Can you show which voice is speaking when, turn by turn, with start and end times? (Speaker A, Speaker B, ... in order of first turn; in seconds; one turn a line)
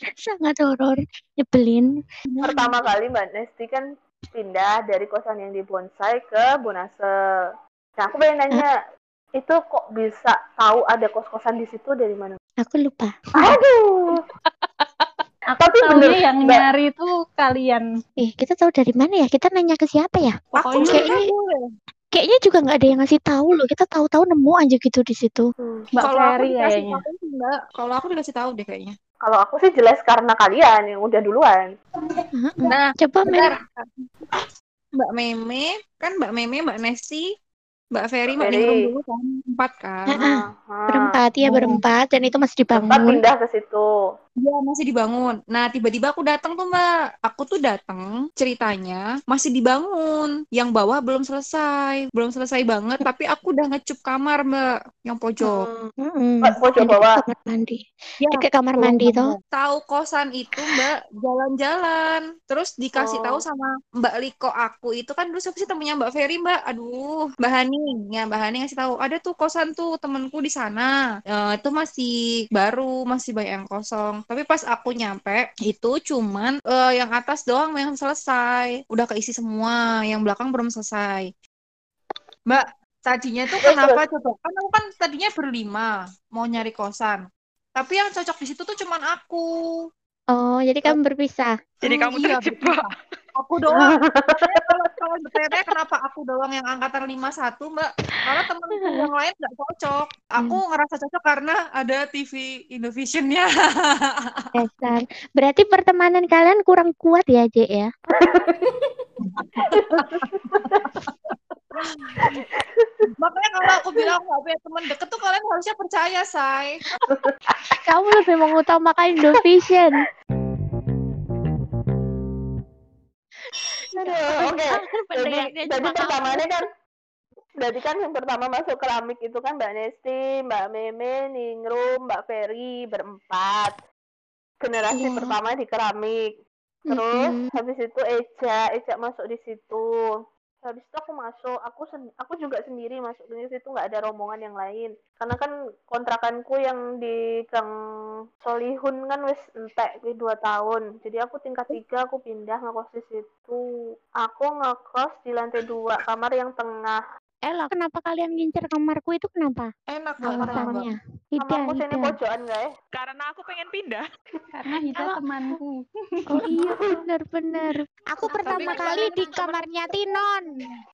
Speaker A: 0.3-2.0
Speaker B: 2.3-2.8
Speaker C: 2.4-7.1
Speaker C: 8.0-8.7
Speaker C: 9.4-12.4
Speaker A: 12.6-13.1
Speaker C: 13.4-14.2
Speaker D: 15.5-17.9
Speaker C: 15.6-16.6
Speaker A: 18.2-21.2
Speaker B: 20.5-21.6
Speaker D: 20.6-21.1
Speaker A: 22.1-25.5
Speaker C: 25.6-25.9
Speaker D: 25.9-27.0
Speaker B: 26.0-28.9
Speaker C: 29.2-31.7
Speaker A: 32.4-33.5
Speaker B: 32.6-34.5
Speaker B: 35.0-37.2
Speaker B: 37.9-40.2
Speaker C: 38.4-38.9
Speaker A: 40.1-43.2
Speaker C: 40.1-41.8
Speaker C: 42.7-43.9
Speaker B: 44.4-55.7
Speaker A: 55.4-59.4
Speaker C: 56.4-57.2
Speaker B: 58.2-81.3
Speaker C: 63.0-63.4
Speaker B: 82.5-87.2
Speaker C: 83.6-84.0
Speaker B: 87.8-89.5
Speaker A: 90.3-91.6
Speaker E: 91.8-92.9
Speaker B: 91.8-104.4
Speaker C: 93.8-94.6
Speaker A: 98.8-99.1
Speaker A: 104.5-107.9
Speaker C: 108.2-108.6
Speaker B: 109.2-111.1
Speaker C: 109.7-111.3
Speaker B: 111.8-112.5
Speaker C: 112.3-112.9
Speaker B: 113.2-116.9
Speaker C: 117.1-117.8
Speaker A: 117.8-120.1
Speaker A: 123.9-126.5
Speaker C: 124.0-126.7
Speaker C: 127.6-133.7
Speaker C: 134.6-136.3
Speaker A: 134.9-135.3
Speaker A: 136.9-137.5
Speaker C: 136.9-147.7
Speaker C: 148.4-153.6
Speaker C: 154.2-157.0
Speaker A: 157.5-159.7
Speaker B: 159.9-160.9
Speaker A: 160.2-162.2
Speaker C: 161.4-162.7
Speaker E: 162.9-164.0
Speaker D: 164.5-165.8
Speaker A: 165.0-165.2
Speaker A: 166.3-170.5
Speaker E: 168.3-169.7
Speaker D: 168.7-169.2